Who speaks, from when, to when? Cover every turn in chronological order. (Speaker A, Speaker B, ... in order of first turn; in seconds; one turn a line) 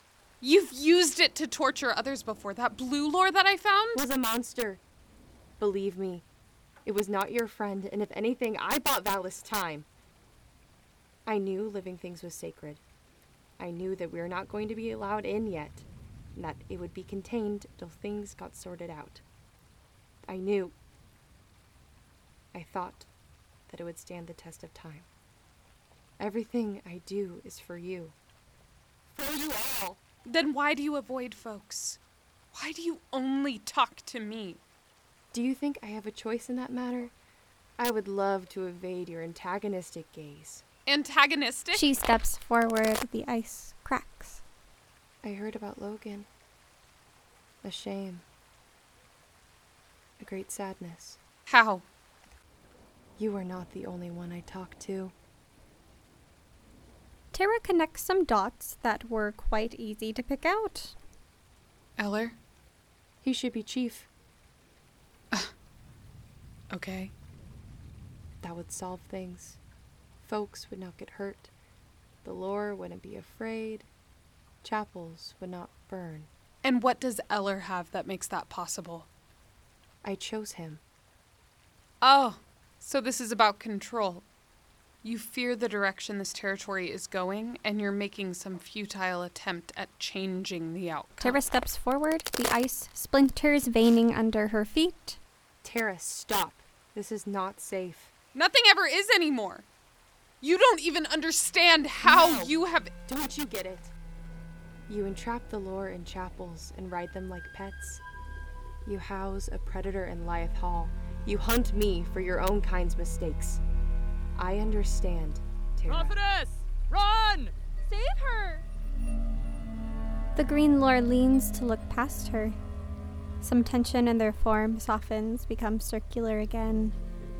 Speaker A: 0.4-4.0
Speaker B: 3.9-4.8
Speaker B: 5.6-6.2
Speaker B: 6.8-9.8
Speaker B: 11.2-12.8
Speaker B: 13.6-19.2
Speaker B: 20.3-20.7
Speaker B: 22.5-23.1
Speaker B: 23.7-25.1
Speaker B: 26.2-28.1
Speaker B: 29.1-30.0
Speaker A: 30.2-32.0
Speaker A: 32.5-34.6
Speaker B: 35.3-37.1
Speaker B: 37.8-40.6
Speaker A: 40.9-41.9
Speaker C: 41.7-44.4
Speaker B: 45.2-46.3
Speaker B: 47.6-48.2
Speaker B: 50.2-51.2
Speaker A: 51.5-51.8
Speaker B: 53.2-55.1
Speaker C: 57.3-60.9
Speaker A: 62.0-62.4
Speaker B: 63.2-64.1
Speaker A: 66.7-67.1
Speaker B: 68.4-69.6
Speaker B: 70.2-71.5
Speaker B: 72.2-73.9
Speaker B: 74.6-76.3
Speaker A: 76.6-79.1
Speaker B: 80.0-80.8
Speaker A: 82.0-84.2
Speaker A: 85.0-91.4
Speaker C: 91.2-95.2
Speaker B: 95.6-98.1
Speaker A: 98.3-99.6
Speaker A: 100.4-102.9
Speaker B: 102.0-102.5
Speaker B: 103.1-103.9
Speaker B: 104.9-108.0
Speaker B: 108.8-113.6
Speaker B: 114.3-116.2
Speaker D: 115.8-118.6
Speaker C: 120.3-122.5
Speaker C: 123.4-126.9